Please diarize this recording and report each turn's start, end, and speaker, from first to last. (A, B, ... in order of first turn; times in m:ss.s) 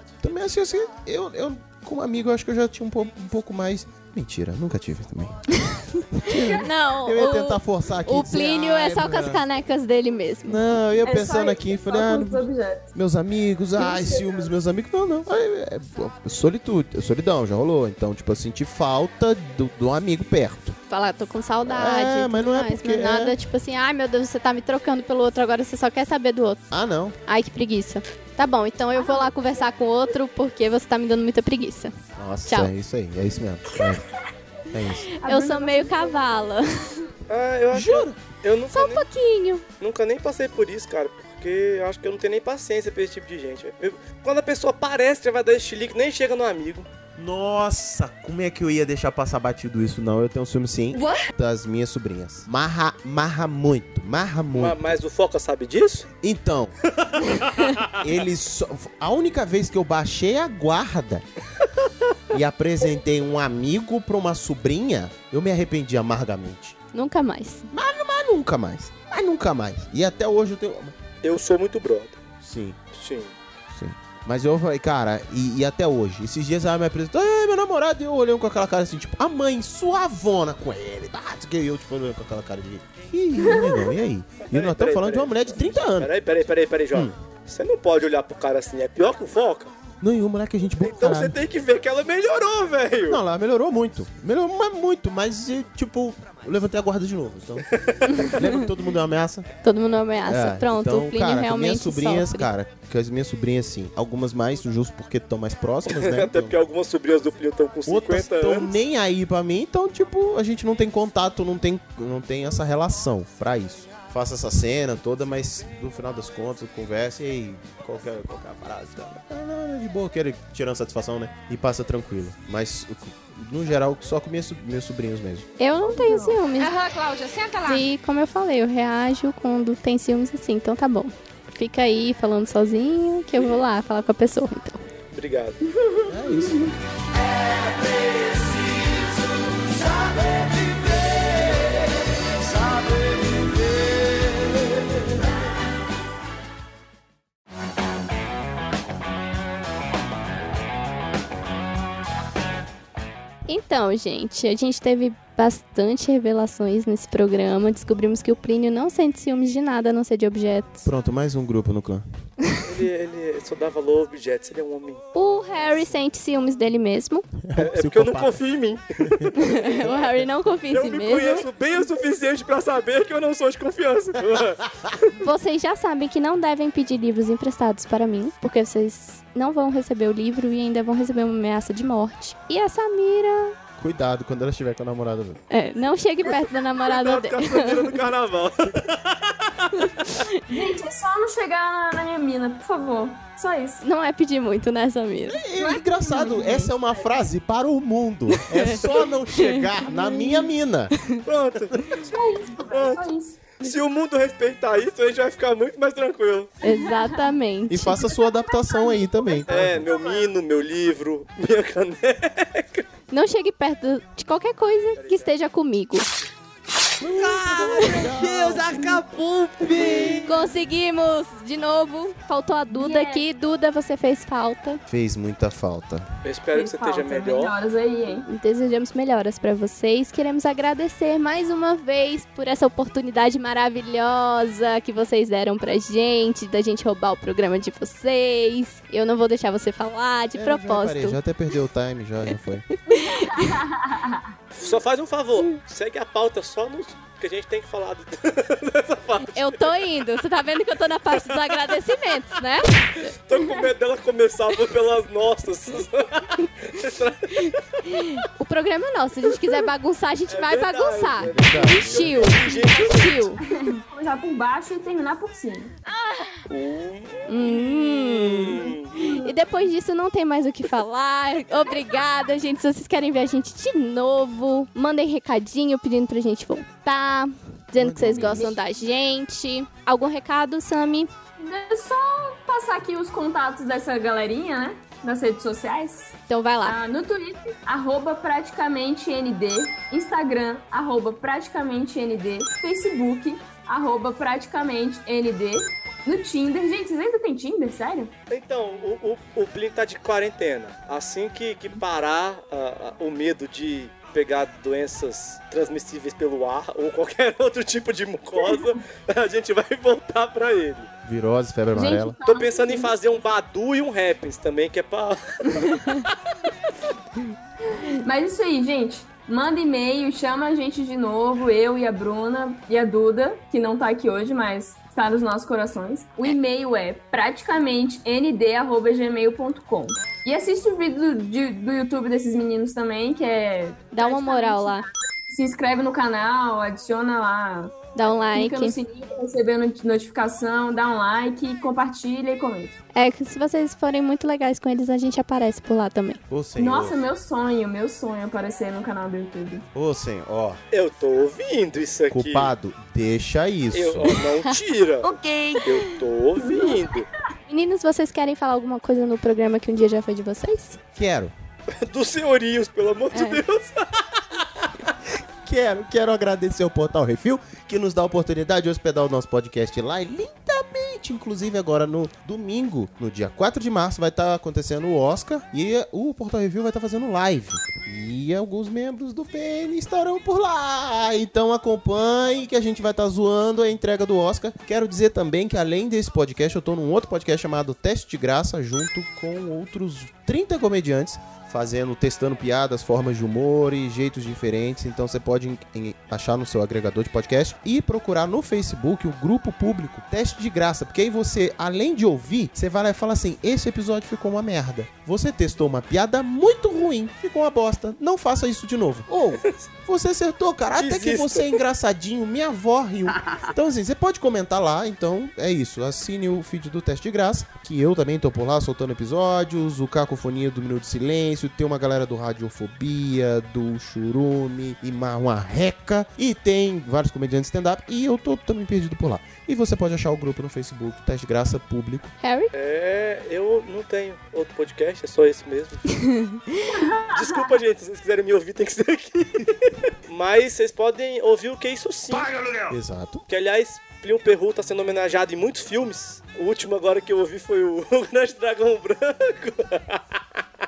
0:00.2-0:05.4 A
0:05.7-0:10.6 B
0:06.1-0:09.4 A
0:10.5-0:20.8 A
0:11.0-0:12.9 C
0:13.8-0:14.5 C
0:20.9-0:26.6 B
0:21.7-0:23.4 A
0:26.7-0:27.2 A
0:27.3-0:31.9 B
0:29.0-0:29.3 C
0:32.2-0:34.0 A
0:34.7-0:35.1 A
0:35.2-0:36.5 C
0:35.2-0:36.7 B
0:37.3-0:39.0 D
0:37.7-0:38.2 A
0:38.7-0:39.6 B
0:39.8-0:46.9 D
0:47.2-0:55.0 A
0:50.9-0:51.3 C
0:54.5-0:56.1 D
0:56.2-0:56.8 A
0:57.0-0:58.0 D
0:58.0-1:01.2 A
1:02.3-1:06.8 A
1:06.9-1:07.7 B
1:07.7-1:11.0 A
1:11.2-1:12.2 D
1:12.4-1:12.8 A
1:12.9-1:13.3 D
1:13.7-1:26.1 A
1:23.4-1:23.9 C
1:24.5-1:29.7 D
1:30.0-1:31.4 A
1:30.8-1:33.2 D
1:33.1-1:37.7 A
1:37.7-1:38.3 D
1:38.2-1:39.5 A
1:39.6-1:42.5 B
1:40.3-1:46.6 A
1:45.9-1:48.7 D
1:47.9-2:05.5 A
2:05.6-2:06.8 B
2:05.8-2:06.4 C
2:07.6-2:14.8 B
2:15.1-2:15.6 D
2:15.7-2:16.7 C
2:16.1-2:16.8 A
2:33.5-2:40.9 B
2:40.8-2:42.0 A
2:42.6-2:45.0 D
2:45.1-2:47.3 B
2:47.4-2:48.4 A
2:47.6-2:50.1 D
2:49.4-2:51.5 B
2:50.7-2:55.1 D
2:55.2-3:03.6 B
3:03.8-3:05.4 A
3:05.5-3:08.0 B
3:06.8-3:09.9 D
3:10.5-3:13.8 C
3:13.8-3:15.4 B
3:15.3-3:20.9 A
3:15.6-3:17.1 C
3:18.5-3:19.7 B
3:19.9-3:20.4 C
3:21.2-3:22.0 D
3:22.0-3:23.4 C
3:22.7-3:26.5 D
3:26.6-3:28.0 B
3:26.6-3:27.3 C
3:27.7-3:29.9 A
3:28.2-3:30.3 C
3:29.5-3:32.8 D
3:33.1-3:36.1 B
3:35.0-3:35.3 D
3:37.0-3:39.0 A
3:37.0-3:40.3 D
3:39.7-3:40.1 A
3:40.2-3:44.8 B
3:42.7-3:43.2 C
3:44.9-3:46.1 A
3:46.2-3:47.5 D
3:46.5-3:48.3 C
3:48.3-4:01.2 B
4:00.4-4:02.6 A
4:02.9-4:03.6 B
4:02.9-4:04.3 C
4:04.6-4:09.7 D
4:09.3-4:13.1 B
4:11.2-4:11.6 D
4:13.3-4:17.6 D
4:17.4-4:23.4 B
4:20.3-4:23.3 D
4:21.2-4:22.4 A
4:23.4-4:25.7 C
4:26.0-4:26.3 B
4:26.5-4:29.0 D
4:27.3-4:41.1 B
4:28.9-4:29.4 C
4:37.7-4:38.6 A
4:38.2-4:38.6 C
4:41.4-4:58.1 C
4:46.3-4:46.8 B
4:58.3-5:10.9 D
5:11.0-5:12.2 A
5:11.7-5:12.9 C
5:12.3-5:16.1 D
5:17.8-5:42.8 C
5:33.9-5:34.8 B
5:38.0-5:38.8 B
5:42.9-5:46.2 B
5:46.3-5:47.0 A
5:46.6-5:49.7 C
5:49.8-5:50.6 A
5:50.7-5:52.5 D
5:52.1-5:54.2 A
5:53.7-5:57.1 D
5:55.0-5:55.9 B
5:56.4-5:57.0 C
5:57.5-6:00.8 B
6:01.0-6:01.3 A
6:01.8-6:04.0 D
6:03.1-6:03.4 B
6:05.4-7:12.1 A
6:50.8-6:51.6 D
7:12.2-7:12.5 B
7:12.5-7:16.0 D
7:16.0-7:16.7 B
7:16.7-7:17.4 C
7:17.1-7:22.5 D
7:22.7-7:23.2 A
7:23.3-7:30.2 D